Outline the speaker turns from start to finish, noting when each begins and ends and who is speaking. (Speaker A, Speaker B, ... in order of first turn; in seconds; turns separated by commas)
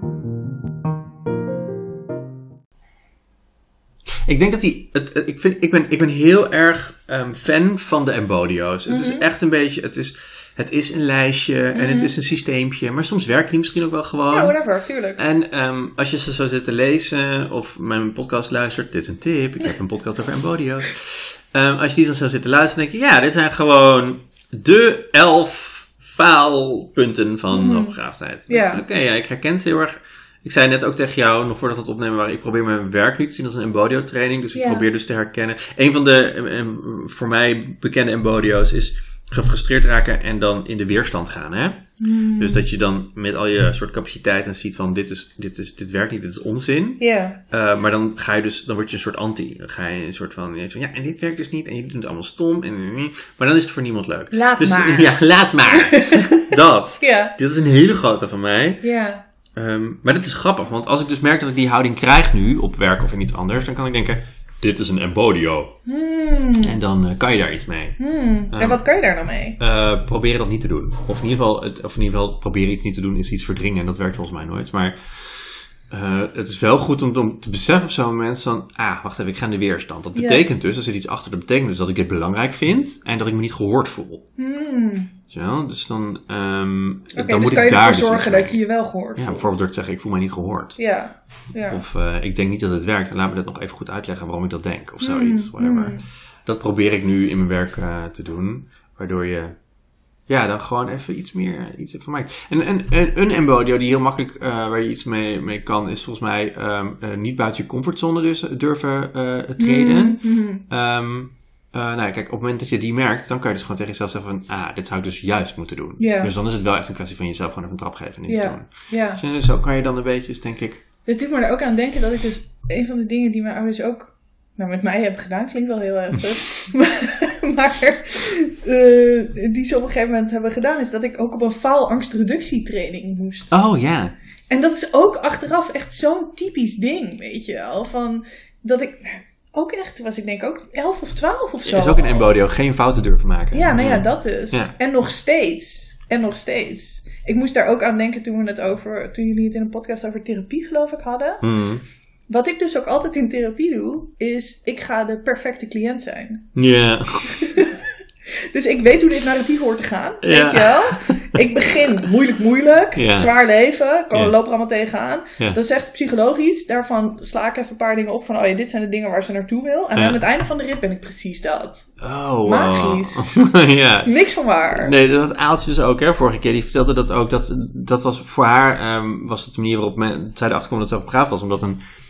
Speaker A: 4.2-14.6, Speaker B: 8.9-9.3, Speaker B: 11.7-12.1, Speaker B: 14.3-15.2, Speaker A: 15.2-58.8, Speaker B: 27.5-28.0, Speaker B: 28.5-28.8, Speaker B: 34.5-34.9, Speaker B: 42.0-42.6, Speaker B: 47.0-47.4, Speaker B: 54.3-57.4, Speaker B: 58.8-59.2, Speaker A: 59.6-65.7, Speaker B: 65.8-66.8, Speaker A: 66.6-68.0, Speaker B: 68.0-69.6, Speaker A: 68.5-68.8, Speaker A: 69.6-84.2, Speaker B: 80.2-80.5, Speaker B: 84.4-85.1, Speaker A: 85.3-88.6, Speaker B: 87.2-89.5, Speaker A: 89.2-90.8, Speaker B: 90.8-91.8, Speaker A: 91.7-99.6, Speaker B: 95.0-96.0, Speaker A: 100.3-120.8, Speaker B: 109.6-110.6, Speaker B: 116.0-116.3, Speaker B: 118.3-119.2, Speaker B: 121.1-133.5, Speaker A: 133.5-134.1, Speaker B: 134.5-142.3, Speaker A: 141.7-144.7, Speaker B: 143.5-151.4, Speaker A: 151.4-151.8, Speaker B: 152.3-156.5, Speaker A: 156.6-157.6, Speaker B: 157.3-171.9, Speaker A: 160.2-161.4, Speaker A: 162.9-163.3, Speaker A: 169.9-170.2, Speaker A: 172.0-174.1, Speaker B: 172.4-173.4, Speaker B: 174.1-174.9, Speaker A: 174.7-181.8